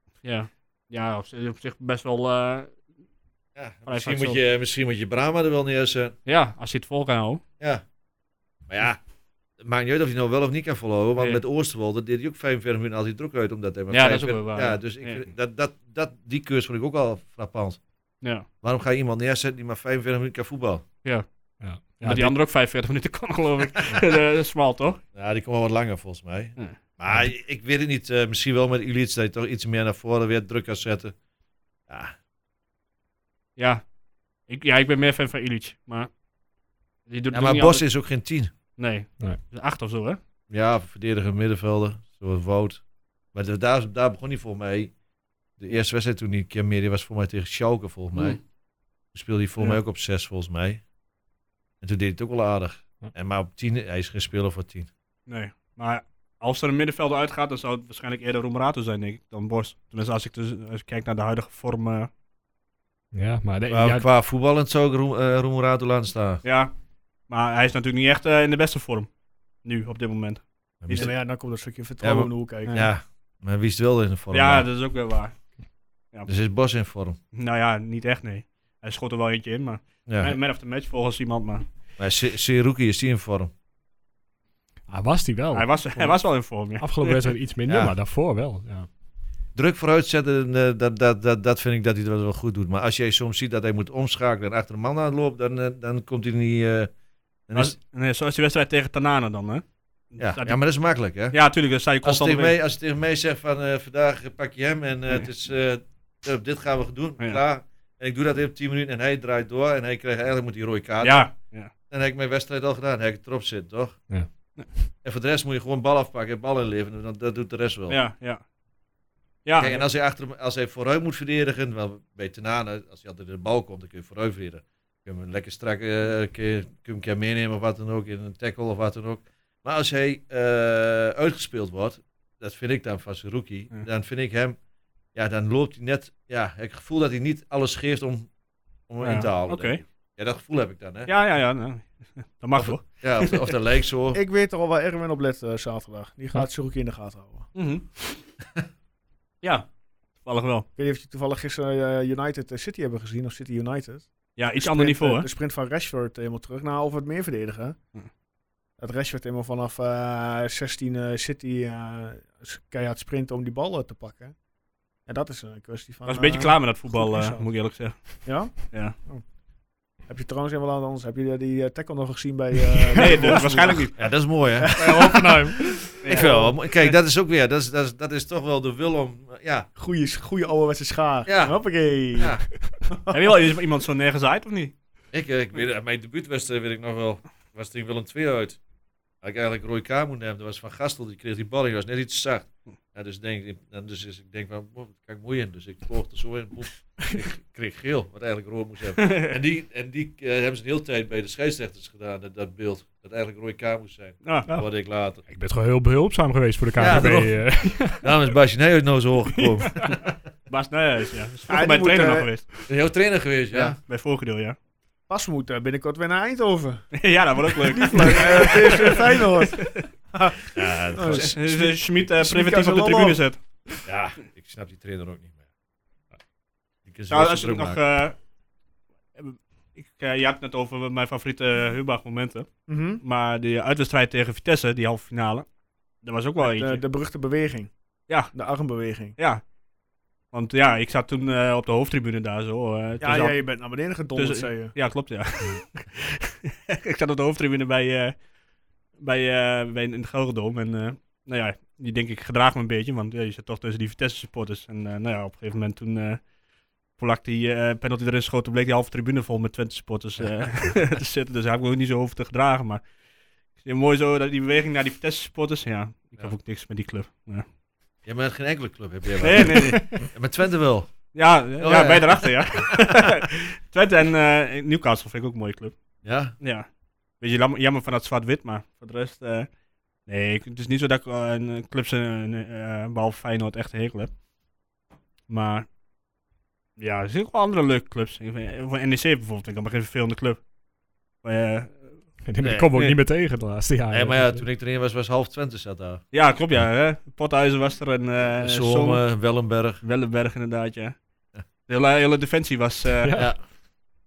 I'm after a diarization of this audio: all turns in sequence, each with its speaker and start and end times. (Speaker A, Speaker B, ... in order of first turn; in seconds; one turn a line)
Speaker A: 0.2-2.8
Speaker B: 3.5-6.1
Speaker A: 3.9-4.4
Speaker A: 6.2-7.4
Speaker B: 8.7-9.0
Speaker B: 9.6-17.8
Speaker A: 11.2-11.4
Speaker A: 13.9-15.2
Speaker B: 18.6-20.8
Speaker C: 21.6-22.4
Speaker A: 22.0-25.0
Speaker B: 25.1-31.1
Speaker B: 31.9-32.1
Speaker A: 33.6-33.9
Speaker A: 34.5-36.1
Speaker A: 37.1-37.9
Speaker B: 37.3-38.5
Speaker A: 38.8-40.2
Speaker B: 40.5-44.9
Speaker B: 45.6-48.4
Speaker A: 48.1-48.4
Speaker B: 49.1-50.8
Speaker B: 51.8-54.9
Speaker A: 55.3-62.1
Speaker C: 63.1-64.0
Speaker B: 63.7-66.4
Speaker A: 66.4-66.7
Speaker A: 67.3-69.1
Speaker A: 69.6-71.1
Speaker B: 70.8-71.2
Speaker D: 70.9-72.7
Speaker B: 72.0-74.7
Speaker A: 74.3-75.3
Speaker B: 76.3-77.2
Speaker A: 77.3-81.6
Speaker B: 80.1-80.3
Speaker B: 82.0-83.5
Speaker C: 84.9-88.9
Speaker A: 85.5-87.2
Speaker B: 87.7-87.9
Speaker B: 89.5-96.9
Speaker B: 97.5-97.8
Speaker A: 97.5-100.6
Speaker B: 100.2-101.4
Speaker A: 101.3-102.5
Speaker B: 102.0-114.0
Speaker A: 111.0-111.7
Speaker B: 115.0-118.0
Speaker A: 117.9-118.4
Speaker A: 119.5-119.8
Speaker B: 119.6-134.6
Speaker B: 135.1-138.3
Speaker B: 138.9-141.1
Speaker A: 139.0-139.8
Speaker A: 141.1-143.5
Speaker B: 142.5-144.2
Speaker D: 144.1-147.5
Speaker A: 147.5-148.2
Speaker A: 149.4-149.7
Speaker A: 150.2-150.7
Speaker D: 150.8-157.8
Speaker A: 154.4-155.3
Speaker D: 158.8-164.3
Speaker D: 165.1-167.5
Speaker A: 166.1-168.9
Speaker D: 168.0-169.2
Speaker D: 170.1-175.6
Speaker A: 172.9-173.9
Speaker B: 173.9-175.2
Speaker C: 174.8-175.9
Speaker A: 176.0-176.9
Speaker B: 176.1-179.7
Speaker D: 176.2-176.5
Speaker D: 179.8-183.1
Speaker B: 181.2-182.4
Speaker A: 183.1-184.7
Speaker B: 185.1-188.6
Speaker B: 189.2-205.2
Speaker A: 199.0-199.3
Speaker C: 205.3-208.2
Speaker B: 206.8-209.9
Speaker C: 209.6-209.9
Speaker A: 210.5-212.5
Speaker D: 211.5-212.3
Speaker B: 212.7-213.8
Speaker A: 213.6-214.6
Speaker D: 215.1-216.9
Speaker A: 217.0-219.8
Speaker D: 217.7-223.2
Speaker B: 220.5-221.4
Speaker A: 221.1-223.4
Speaker B: 223.8-225.4
Speaker B: 226.8-227.8
Speaker A: 227.1-228.2
Speaker A: 229.2-235.4
Speaker D: 232.7-233.0
Speaker A: 236.0-236.8
Speaker D: 236.4-237.7
Speaker A: 238.1-238.3
Speaker D: 238.3-239.2
Speaker A: 239.2-239.4
Speaker A: 240.3-243.4
Speaker D: 243.0-244.7
Speaker A: 244.1-248.2
Speaker A: 249.0-256.2
Speaker A: 256.9-262.8
Speaker B: 260.2-260.7
Speaker A: 263.6-267.4
Speaker B: 268.0-272.7
Speaker A: 269.2-270.0
Speaker A: 271.1-275.7
Speaker B: 276.0-276.3
Speaker A: 276.4-276.7
Speaker A: 277.2-279.5
Speaker A: 280.1-284.1
Speaker A: 285.3-285.6
Speaker A: 286.8-290.4
Speaker A: 291.2-292.0
Speaker C: 292.2-294.4
Speaker B: 292.4-292.9
Speaker B: 293.9-296.0
Speaker A: 296.1-299.0
Speaker B: 298.4-299.8
Speaker A: 299.8-300.9
Speaker A: 301.7-303.2
Speaker C: 303.0-303.3
Speaker B: 303.1-303.4